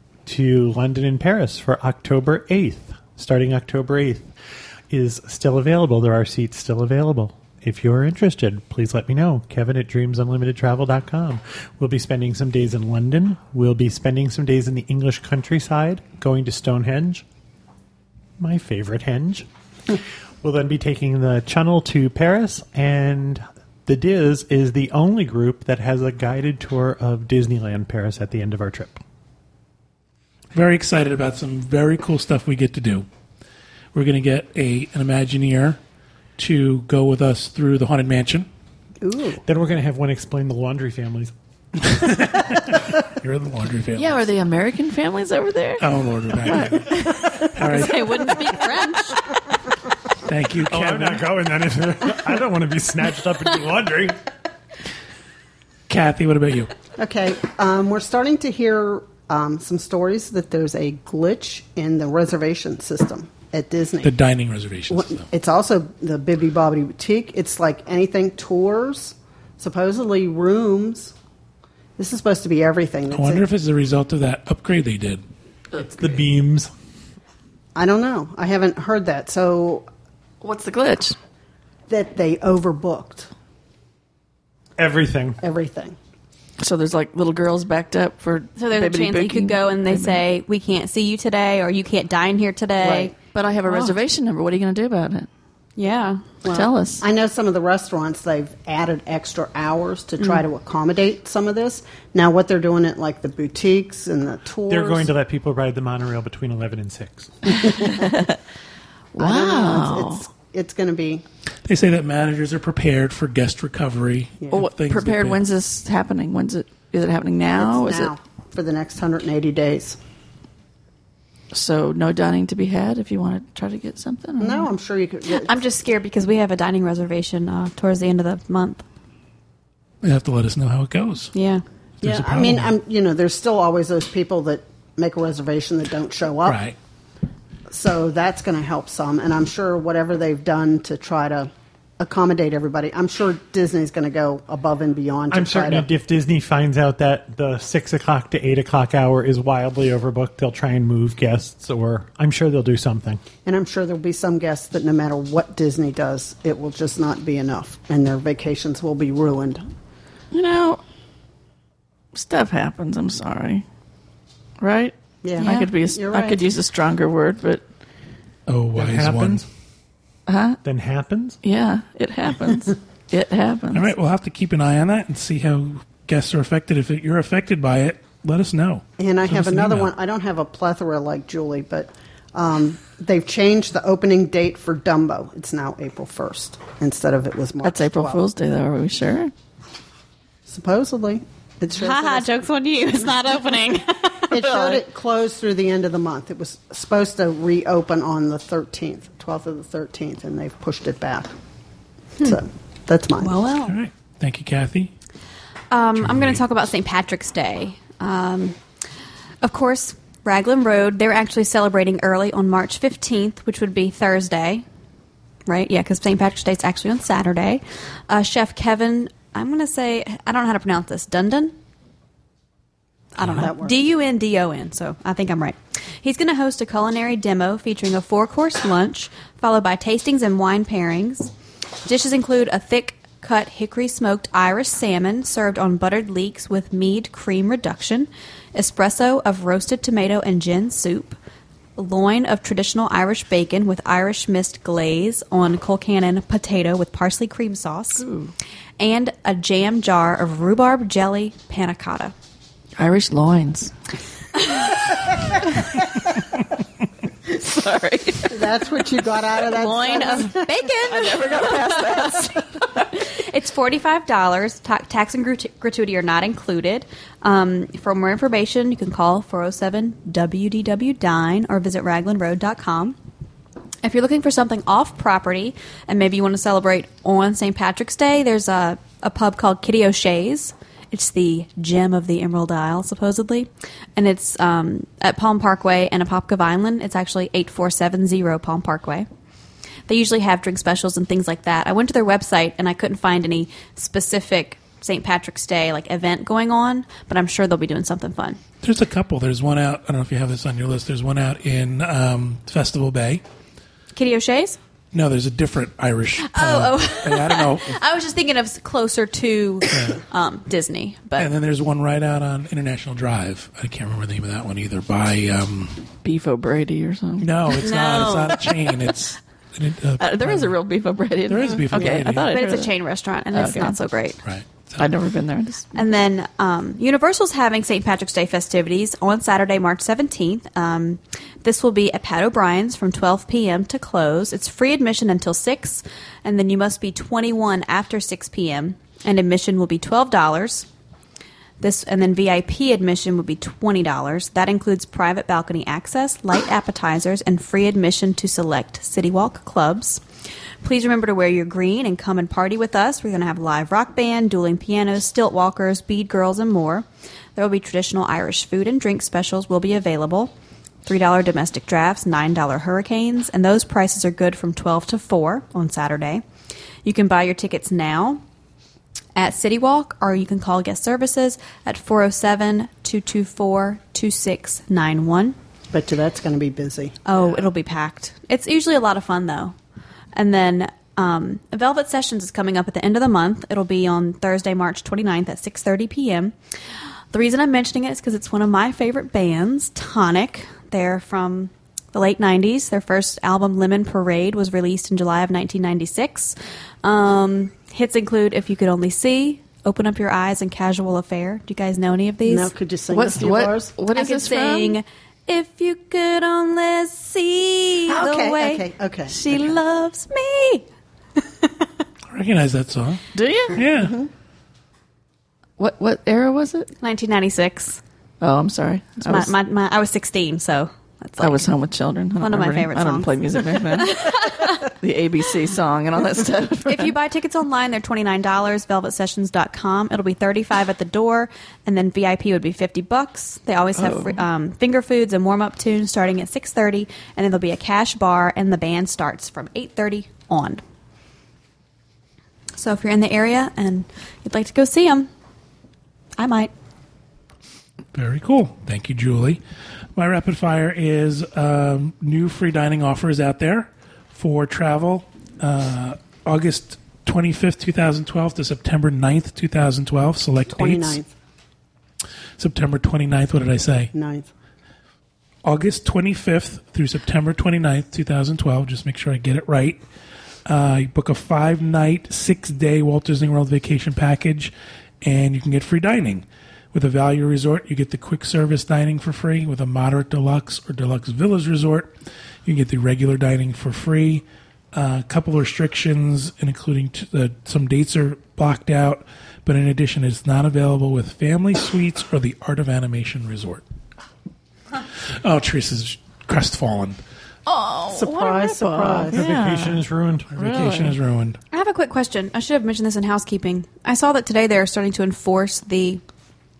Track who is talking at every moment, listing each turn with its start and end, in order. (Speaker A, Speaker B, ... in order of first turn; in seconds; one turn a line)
Speaker A: 0.2-4.3
Speaker A: 4.9-17.2
Speaker A: 18.4-29.0
Speaker B: 30.5-33.1
Speaker B: 33.9-35.8
Speaker B: 36.4-38.5
Speaker C: 39.0-39.4
Speaker A: 39.5-41.3
Speaker B: 41.8-44.3
Speaker D: 44.0-48.3
Speaker B: 45.8-48.4
Speaker E: 47.6-49.2
Speaker B: 50.2-51.2
Speaker A: 50.7-54.2
Speaker B: 55.9-56.7
Speaker C: 57.0-64.1
Speaker B: 64.0-65.2
Speaker C: 64.9-71.1
Speaker C: 72.0-73.5
Speaker B: 73.1-75.2
Speaker A: 75.8-76.7
Speaker C: 77.8-79.9
Speaker D: 80.4-81.2
Speaker C: 81.9-83.3
Speaker A: 84.8-85.4
Speaker C: 85.4-86.0
Speaker D: 86.6-90.2
Speaker E: 88.6-93.1
Speaker C: 92.8-93.1
Speaker D: 93.3-95.3
Speaker E: 93.7-94.0
Speaker E: 95.8-96.3
Speaker C: 96.4-105.1
Speaker D: 96.5-97.0
Speaker A: 104.7-107.4
Speaker D: 107.6-108.4
Speaker D: 109.1-110.2
Speaker C: 109.2-111.2
Speaker B: 111.7-115.4
Speaker D: 114.5-118.1
Speaker C: 117.5-120.0
Speaker D: 121.5-124.7
Speaker C: 124.4-125.6
Speaker E: 125.3-128.8
Speaker B: 130.0-131.3
Speaker E: 131.3-131.6
Speaker B: 132.0-132.7
Speaker C: 132.0-136.6
Speaker B: 136.4-136.8
Speaker C: 137.7-145.9
Speaker A: 145.3-153.2
Speaker C: 153.4-159.7
Speaker D: 160.3-160.8
Speaker D: 162.1-163.6
Speaker D: 164.6-167.6
Speaker C: 165.2-166.4
Speaker B: 168.5-169.4
Speaker A: 168.8-169.5
Speaker D: 170.3-170.6
Speaker A: 170.6-171.4
Speaker D: 171.4-173.9
Speaker B: 173.7-179.9
Speaker C: 179.0-188.2
Speaker D: 187.6-189.3
Speaker C: 190.5-192.3
Speaker E: 191.7-194.8
Speaker C: 194.3-201.3
Speaker C: 202.2-203.4
Speaker E: 203.2-203.8
Speaker B: 203.6-204.9
Speaker E: 205.7-208.6
Speaker B: 206.0-206.4
Speaker E: 209.4-214.6
Speaker E: 215.5-221.5
Speaker E: 223.2-231.3
Speaker B: 223.2-223.5
Speaker C: 223.2-223.8
Speaker E: 231.8-241.2
Speaker E: 241.8-248.1
Speaker D: 248.0-248.3
Speaker E: 248.8-252.1
Speaker D: 252.8-253.7
Speaker E: 254.4-254.8
Speaker D: 257.3-258.4
Speaker C: 258.3-260.5
Speaker E: 259.5-273.0
Speaker D: 260.9-262.4
Speaker E: 273.8-289.1
Speaker E: 289.9-298.4
Speaker B: 298.6-303.2
Speaker E: 303.9-304.6
Speaker B: 304.9-307.8
Speaker E: 306.2-311.3
Speaker B: 309.7-310.0
Speaker B: 311.2-315.9
Speaker D: 316.0-317.5
Speaker B: 317.2-320.6
Speaker E: 317.6-318.4
Speaker D: 320.0-322.7
Speaker B: 321.3-322.4
Speaker E: 322.3-324.2
Speaker D: 323.3-323.8
Speaker B: 324.2-324.9
Speaker D: 324.8-325.9
Speaker E: 325.8-340.7
Speaker E: 341.6-350.0
Speaker E: 350.6-360.3
Speaker E: 360.9-366.2
Speaker E: 366.8-368.2
Speaker E: 369.2-375.4
Speaker C: 375.7-377.0
Speaker E: 377.1-379.6
Speaker E: 380.1-386.3
Speaker E: 387.1-402.5
Speaker C: 402.3-403.8
Speaker D: 402.9-404.8
Speaker E: 403.9-410.6
Speaker C: 407.9-409.6
Speaker B: 412.1-413.0
Speaker D: 413.1-413.6
Speaker B: 413.5-414.0
Speaker C: 413.8-414.1
Speaker D: 415.6-416.7
Speaker E: 416.8-417.8
Speaker D: 418.2-419.3
Speaker E: 419.0-421.5
Speaker D: 421.2-426.9
Speaker E: 422.2-424.7
Speaker E: 426.7-440.6
Speaker D: 433.8-434.2
Speaker E: 442.6-445.1
Speaker E: 446.2-446.5
Speaker B: 447.9-449.4
Speaker B: 450.0-461.0
Speaker C: 460.5-461.1
Speaker B: 462.4-463.9
Speaker C: 463.9-464.3
Speaker B: 465.4-469.8
Speaker B: 470.4-481.9
Speaker B: 482.4-493.6
Speaker B: 495.1-497.0
Speaker D: 497.5-499.8
Speaker C: 497.9-499.2
Speaker A: 499.1-500.9
Speaker B: 500.4-501.4
Speaker D: 500.4-500.9
Speaker E: 501.5-506.0